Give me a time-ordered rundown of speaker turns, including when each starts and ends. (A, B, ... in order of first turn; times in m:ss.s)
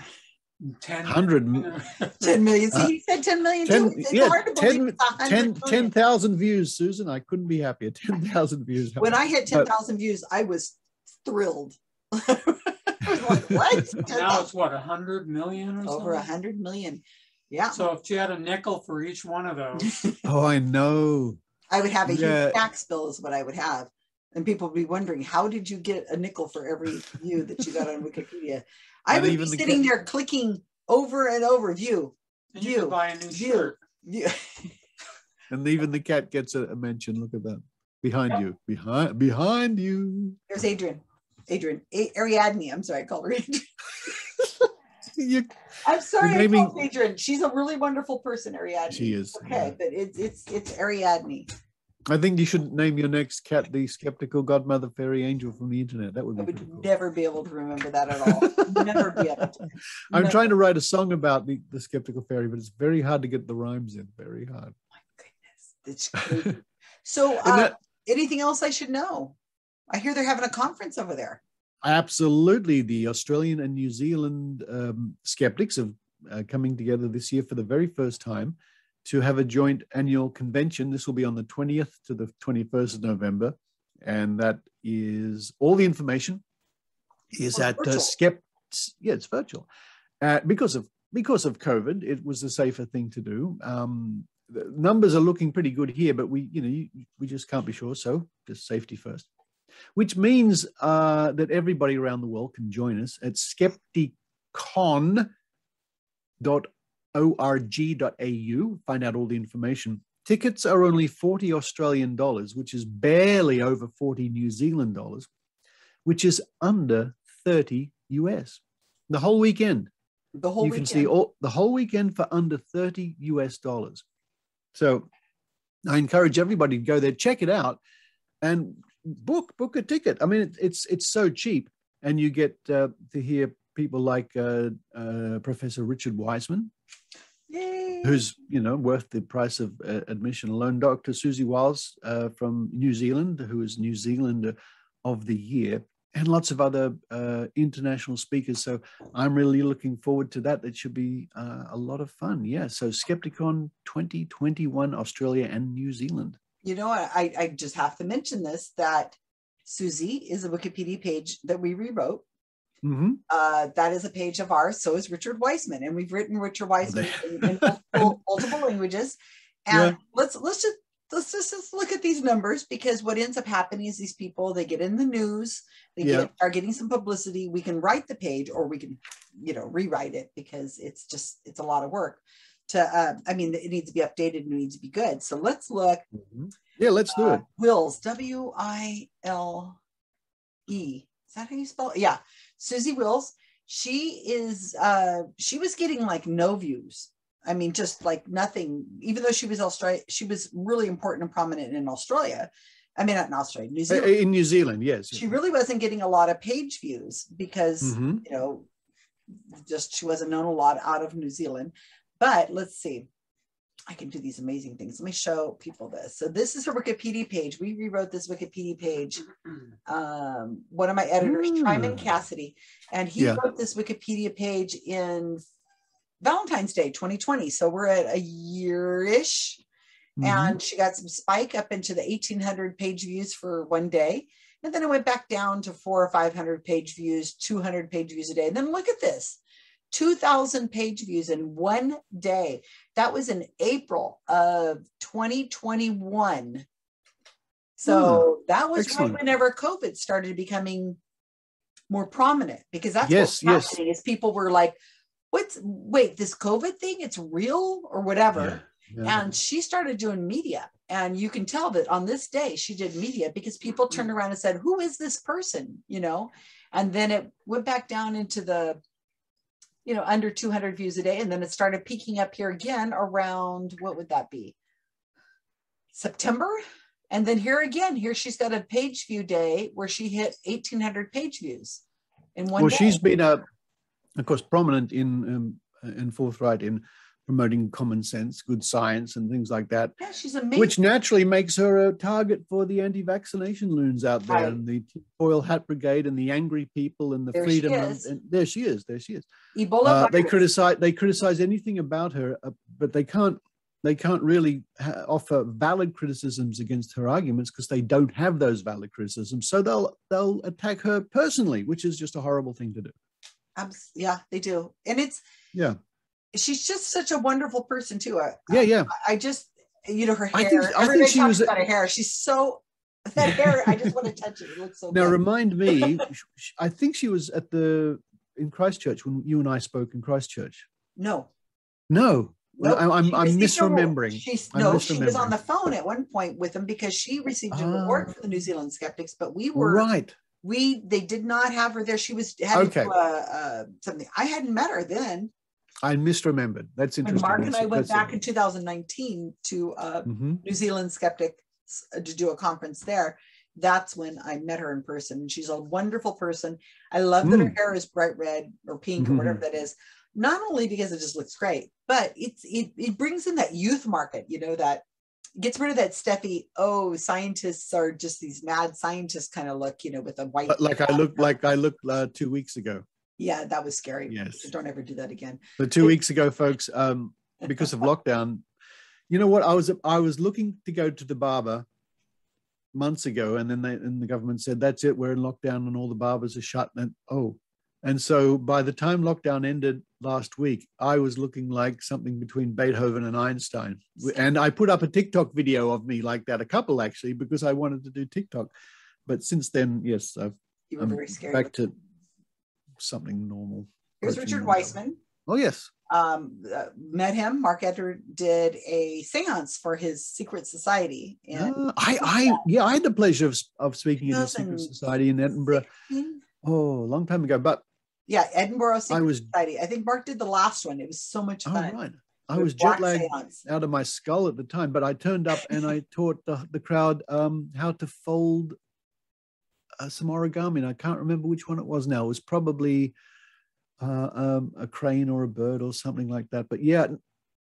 0:00.6-0:02.4 A
0:01.0-0:01.8 B
0:02.2-0:05.9 C
0:03.6-0:09.7 B
0:09.0-0:14.5 C
0:13.1-0:14.0 B
0:13.9-0:16.3 A
0:15.8-0:17.8 C
0:17.7-0:19.9 A
0:19.8-0:20.2 C
0:20.2-0:21.4 B
0:21.7-0:34.7 C
0:22.0-0:22.6 B
0:29.1-0:29.9 B
0:32.6-0:33.7 A
0:35.5-0:40.4 B
0:40.5-0:44.2 C
0:44.4-0:45.5 B
0:45.8-0:51.5 C
0:46.2-0:46.8 B
0:48.9-0:49.7 B
0:52.1-0:56.9 B
0:56.4-1:00.4 C
0:58.2-0:59.5 B
1:00.1-1:04.8 B
1:05.2-1:09.4 C
1:07.4-1:07.7 B
1:09.9-1:11.4 C
1:11.8-1:26.4 B
1:27.3-1:29.7 B
1:27.5-1:28.1 C
1:30.2-1:39.2 B
1:39.9-1:45.3 B
1:46.4-1:55.3 B
1:56.0-1:59.9 B
2:00.4-2:01.1 C
2:00.6-2:04.0 B
2:04.7-2:05.1 B
2:05.8-2:07.8 B
2:08.4-2:16.7 B
2:17.5-2:18.2 C
2:18.0-2:36.4 B
2:36.6-2:42.2 C
2:42.8-2:43.2 B
2:43.3-3:06.0 C
2:46.8-2:48.2 B
2:49.7-2:50.0 B
2:56.0-2:56.3 B
3:06.1-3:07.4 B
3:07.1-3:09.8 C
3:10.7-3:24.2 C
3:23.9-3:25.3 B
3:25.1-3:28.7 C
3:27.8-3:28.2 B
3:29.5-3:33.1 C
3:33.9-3:39.2 C
3:39.9-3:45.4 C
3:41.2-3:42.1 B
3:46.2-3:49.6 C
3:50.2-3:50.6 B
3:50.2-3:59.4 C
3:59.9-4:06.6 C
4:07.8-4:11.0 C
4:07.9-4:09.2 B
4:11.9-4:14.8 C
4:13.0-4:13.8 B
4:15.3-4:28.8 C
4:18.3-4:19.2 B
4:29.8-4:34.6 C
4:35.9-4:41.8 C
4:42.4-4:43.0 C
4:42.6-4:43.4 B
4:44.2-4:50.0 B
4:50.0-4:50.8 C
4:50.6-4:59.3 B
4:54.3-4:54.6 C
4:57.3-4:58.1 C
4:59.5-5:00.4 C
4:59.8-5:12.9 B
5:13.6-5:15.2 C
5:15.5-5:15.8 B
5:16.3-5:26.0 C
5:18.5-5:18.9 B
5:20.3-5:21.5 B
5:23.2-5:23.9 B
5:24.9-5:30.7 B
5:31.0-5:31.3 C
5:31.9-5:35.3 B
5:32.6-5:39.9 C
5:37.5-5:38.1 B
5:39.5-5:40.2 B
5:40.4-5:45.3 C
5:42.5-5:42.9 B
5:45.8-5:48.2 B
5:47.0-6:04.8 C
5:50.1-5:50.4 B
5:57.2-5:57.5 B
5:59.0-5:59.4 B
6:05.4-6:11.3 C
6:10.5-6:12.8 B
6:13.2-6:16.0 C
6:14.1-6:14.4 B
6:15.6-6:18.4 B
6:19.1-6:21.6 B
6:22.7-6:38.5 B
6:39.0-6:41.7 B
6:40.7-6:41.5 C
6:42.8-6:45.7 B
6:44.0-6:45.0 C
6:45.9-6:52.4 C
6:51.3-6:55.6 B
6:54.0-6:54.7 C
6:55.5-6:56.2 C
6:56.4-6:57.6 B
6:58.1-7:01.7 C
6:58.9-6:59.3 B
7:01.4-7:08.6 B
7:02.3-7:03.4 C
7:09.8-7:12.9 B
7:13.8-7:17.0 B